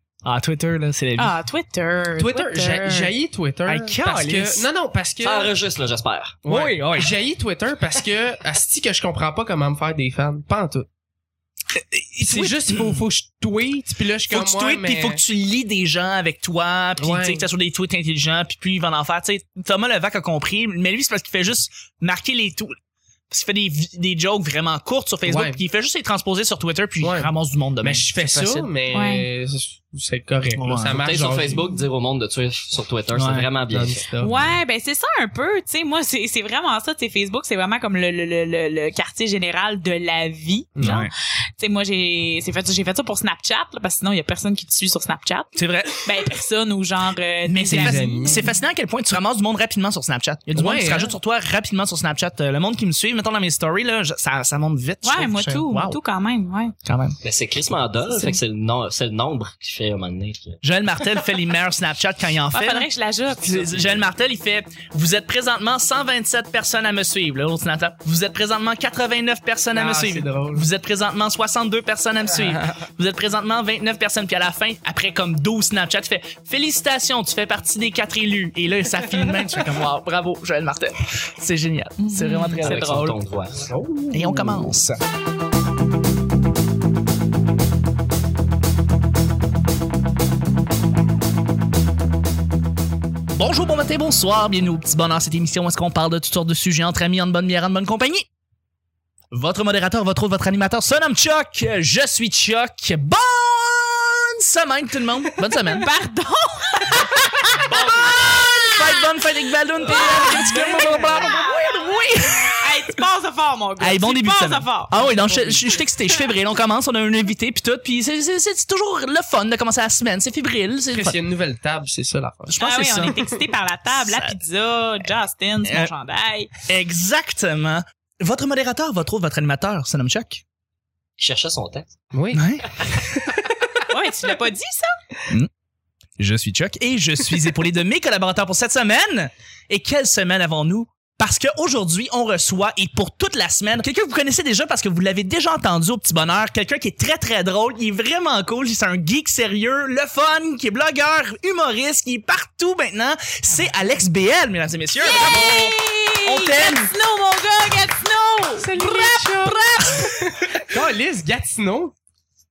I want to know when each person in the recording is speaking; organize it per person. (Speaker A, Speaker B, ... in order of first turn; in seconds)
Speaker A: 0.2-1.4, 3.7-4.7, 6.5-7.1, 11.7-13.1, 14.3-22.7, 23.3-28.7, 30.5-31.0, 33.1-33.5, 40.8-41.1, 45.6-46.1, 47.5-56.0, 56.9-57.2, 60.6-83.2, 84.1-85.0, 93.3-98.3, 99.3-105.9, 107.0-113.0, 113.8-121.2, 122.5-123.2, 123.9-124.4, 125.6-125.9, 126.7-130.4, 132.3-132.6, 136.2-156.9
Speaker B: 1.2-3.1, 28.9-29.3, 34.2-48.5, 55.0-56.8, 58.1-58.4, 62.5-64.0, 82.0-83.1, 105.7-107.2, 107.8-109.1, 109.8-115.0, 122.6-126.5, 133.9-134.9, 155.0-160.2
Speaker C: 2.2-5.5, 6.5-10.9, 12.2-15.2, 17.0-17.5, 25.3-25.6, 27.0-27.3, 27.8-31.6, 33.7-34.4, 40.8-41.0, 47.7-48.5, 50.5-51.1, 69.7-70.7, 83.7-84.8, 109.9-111.2, 115.0-115.7, 120.9-123.3, 132.1-133.4, 158.6-161.9
Speaker D: 5.2-6.5, 31.0-34.0, 57.2-60.6, 82.6-83.7, 107.7-108.3, 131.2-131.9